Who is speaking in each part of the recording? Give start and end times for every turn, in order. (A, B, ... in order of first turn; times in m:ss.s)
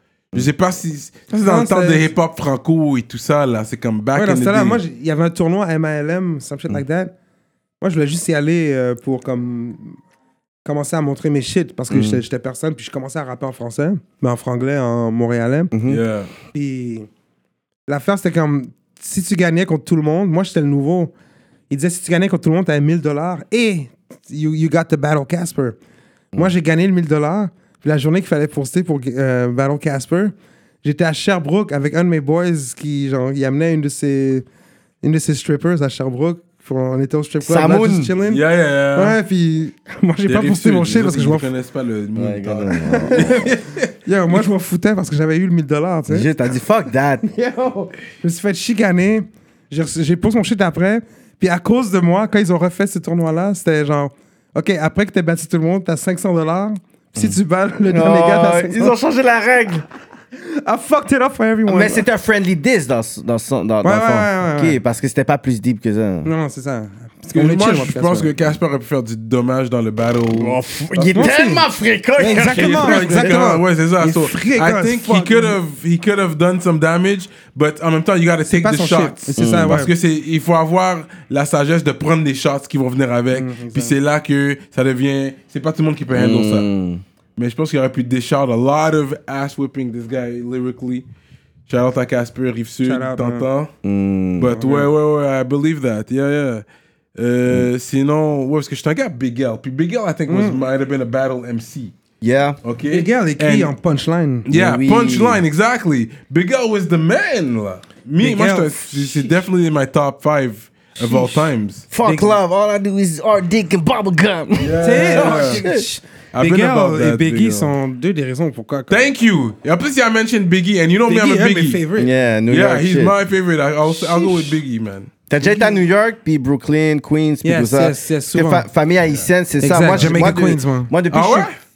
0:00.3-0:04.8 A
0:01.4-0:02.1 B
0:04.1-0:07.1 B
0:07.8-0:10.0 B
0:10.6-0:15.7 B
0:11.9-0:12.2 C
0:15.7-0:16.0 C
0:15.9-0:16.3 A
0:16.5-0:17.1 B
0:17.9-0:21.1 B
0:21.7-0:25.8 B
0:26.3-0:34.4 B
0:35.0-0:41.5 B
0:37.4-0:38.1 C
0:38.2-0:39.2 A
0:40.3-0:43.9 A
0:42.2-0:43.5 C
0:42.9-0:46.3 B
0:46.1-0:47.2 C
0:47.2-0:58.9 B
0:57.9-0:59.8 C
1:00.3-1:02.0 B
1:01.7-1:06.3 C
1:03.8-1:04.8 B
1:06.2-1:08.3 B
1:07.3-1:11.3 A
1:10.3-1:13.4 C
1:11.1-1:11.6 B
1:12.2-1:15.6 B
1:12.3-1:26.7 A
1:18.4-1:19.9 B
1:19.4-1:19.8 C
1:23.3-1:24.0 B
1:26.1-1:27.0 C
1:27.4-1:31.0 A
1:31.7-1:33.7 A
1:32.8-1:33.5 B
1:33.8-1:34.5 C
1:34.4-1:36.6 A
1:34.5-1:34.9 B
1:37.2-1:41.9 A
1:40.3-1:40.6 B
1:42.2-1:42.6 C
1:42.6-1:43.7 A
1:42.9-1:44.4 B
1:44.4-1:51.9 A
1:44.5-1:45.4 C
1:48.2-1:49.4 B
1:51.0-1:51.5 B
1:51.9-1:55.8 C
1:52.0-1:52.4 B
1:54.6-1:55.6 A
1:54.8-1:59.1 B
1:56.3-1:57.7 A
1:58.9-2:01.8 A
2:01.1-2:02.1 B
2:02.0-2:03.1 C
2:02.5-2:05.1 A
2:04.0-2:04.5 C
2:05.3-2:11.5 C
2:05.4-2:05.8 B
2:07.4-2:08.7 B
2:09.6-2:10.9 B
2:11.1-2:11.5 A